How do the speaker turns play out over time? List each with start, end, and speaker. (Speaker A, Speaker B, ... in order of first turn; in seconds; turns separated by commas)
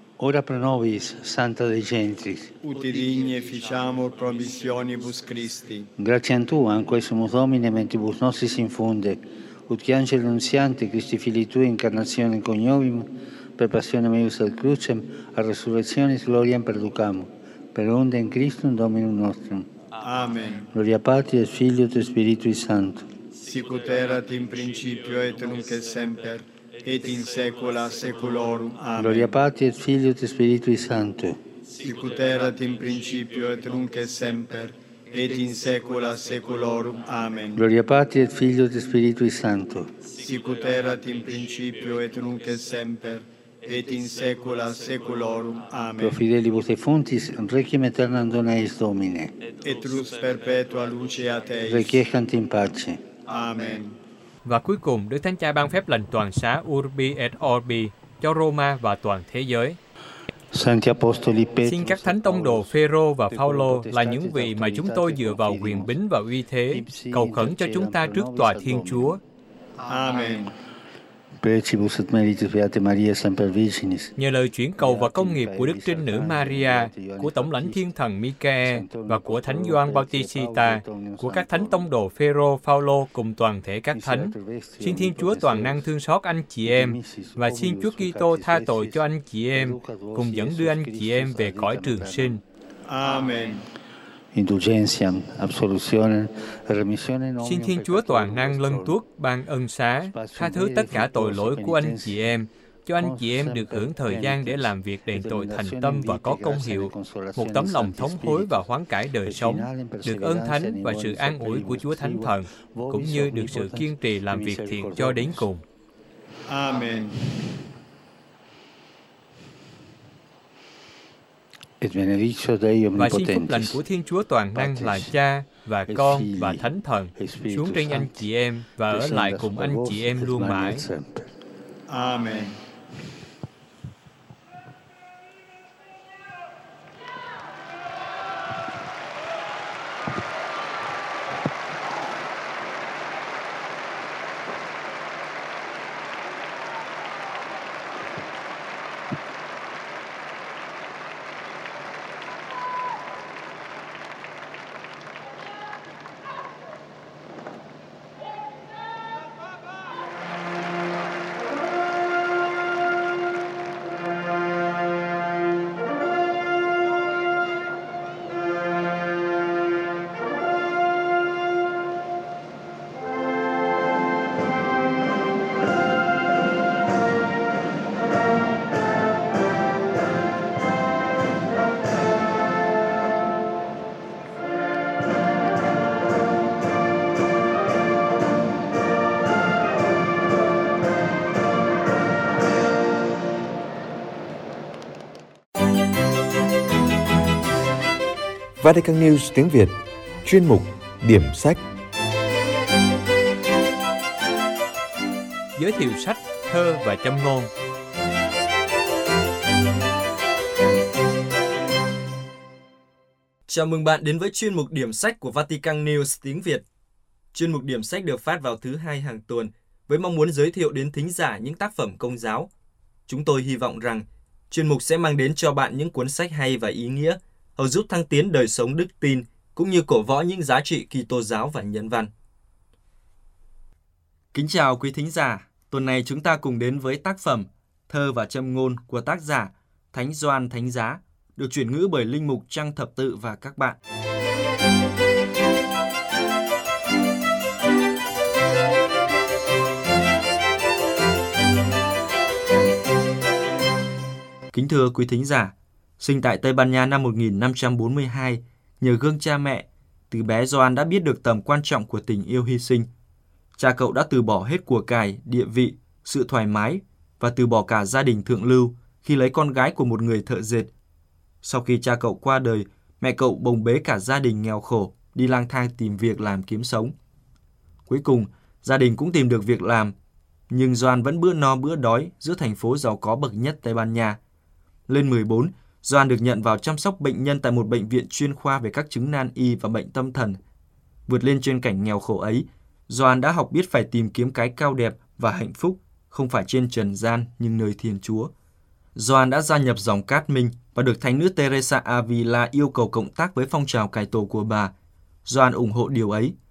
Speaker A: 0.2-2.5, Speaker B: 2.6-5.9, Speaker A: 6.0-19.7, Speaker B: 20.0-20.7, Speaker A: 20.7-23.1, Speaker B: 23.4-29.3, Speaker A: 29.0-31.4, Speaker B: 31.8-37.6, Speaker A: 37.6-39.9, Speaker B: 40.1-46.2, Speaker A: 46.0-49.3, Speaker B: 49.6-52.0, Speaker A: 51.7-53.0, Speaker B: 53.3-54.0, Speaker C: 54.5-59.8, Speaker A: 60.5-62.8, Speaker C: 61.6-69.2, Speaker A: 63.3-66.0, Speaker A: 66.7-69.2, Speaker B: 69.8-70.5, Speaker A: 71.4-74.1, Speaker C: 74.2-92.4, Speaker A: 74.8-77.8, Speaker A: 78.7-81.9, Speaker A: 83.9-85.9, Speaker A: 86.6-92.4, Speaker B: 92.8-93.7, Speaker A: 94.3-99.0, Speaker C: 97.4-115.6, Speaker A: 100.1-102.2, Speaker A: 103.0-108.6, Speaker A: 109.3-115.5, Speaker B: 116.5-117.3, Speaker A: 121.8-123.8, Speaker C: 123.0-130.8, Speaker A: 124.5-125.1, Speaker A: 125.9-128.3, Speaker A: 128.9-131.3, Speaker B: 131.9-132.6, Speaker D: 198.6-201.6, Speaker C: 205.6-207.5, Speaker E: 213.5-216.7, Speaker E: 217.3-222.5, Speaker E: 223.1-232.1, Speaker E: 234.3-243.8, Speaker E: 254.5-262.9, Speaker E: 263.6-270.7, Speaker E: 271.4-276.9, Speaker E: 277.9-279.9, Speaker E: 280.5-284.2, Speaker E: 284.9-290.4, Speaker E: 291.1-298.3, Speaker E: 298.9-304.7, Speaker E: 305.3-306.4